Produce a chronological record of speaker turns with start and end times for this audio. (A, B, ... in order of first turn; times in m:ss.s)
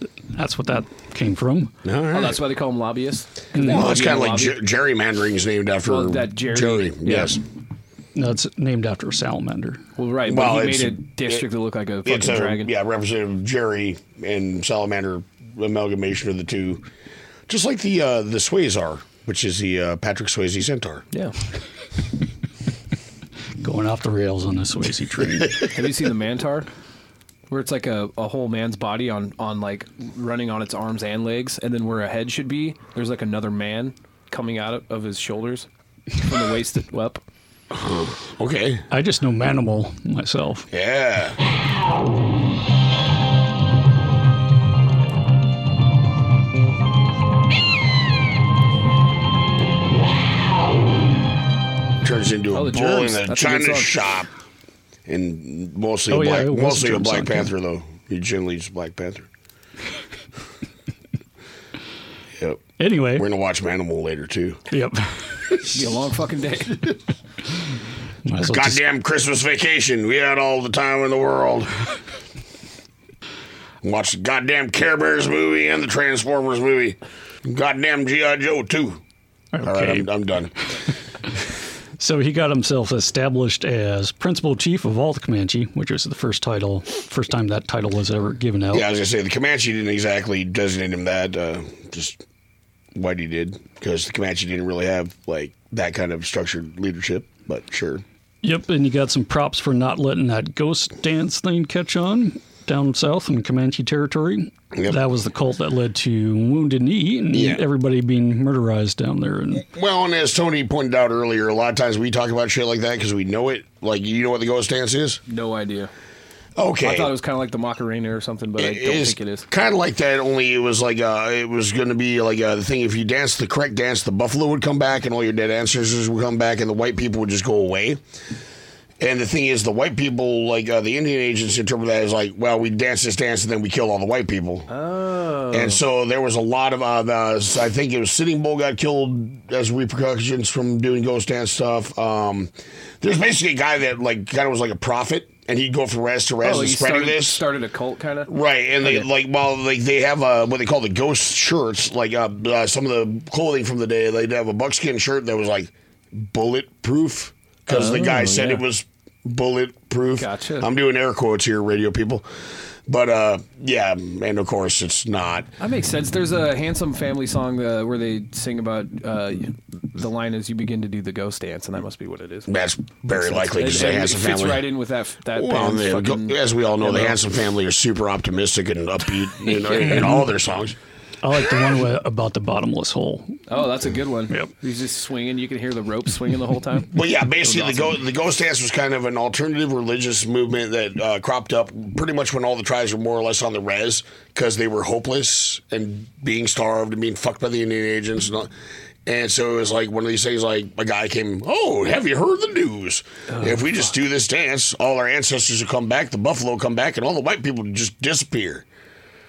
0:00.3-0:01.7 A
0:01.8-0:02.4 B
0:02.1-0:04.6 C
0:03.5-0:03.8 A
0:03.6-0:07.4 B
0:05.8-0:07.4 C
0:08.1-0:09.8 A
0:10.0-0:12.7 C
0:10.2-0:11.4 B
0:12.0-0:16.8 B
0:17.5-0:21.0 B
0:23.6-0:25.6 A
0:25.7-0:26.7 C
0:27.5-0:37.2 C
0:37.7-0:38.8 B
0:38.9-0:40.7 A
0:40.7-0:41.4 B
0:52.0-0:54.3 B
0:52.5-0:53.9 C
0:55.0-0:59.3 B
0:56.1-0:57.5 A
1:02.4-1:04.7 B
1:02.8-1:03.2 A
1:04.7-1:05.4 A
1:05.6-1:07.0 C
1:08.2-1:08.8 A
1:08.4-1:11.7 B
1:13.8-1:19.0 B
1:19.5-1:20.1 A
1:19.6-1:20.5 B
1:22.0-1:28.9 A
1:28.7-1:32.2 B
1:32.9-1:38.0 B
1:38.4-1:49.6 A
1:44.7-1:45.0 B
1:47.3-1:47.6 B
1:49.6-1:55.2 B
1:55.3-1:55.9 C
1:56.6-1:57.1 B
1:56.8-1:59.4 C
1:58.6-2:08.0 B
2:09.0-2:14.7 B
2:14.7-2:15.8 C
2:15.5-2:27.4 B
2:26.4-2:28.3 C
2:28.3-2:42.3 B
2:37.7-2:38.6 C
2:40.2-2:40.7 C
2:42.9-2:45.5 B
2:45.6-2:52.5 C
2:52.5-2:54.6 B
2:53.1-2:57.2 C
2:55.3-3:00.8 B
2:59.9-3:00.2 A
3:01.2-3:03.4 A
3:03.5-3:06.9 C
3:06.9-3:18.5 B
3:07.4-3:08.0 C
3:19.0-3:28.6 B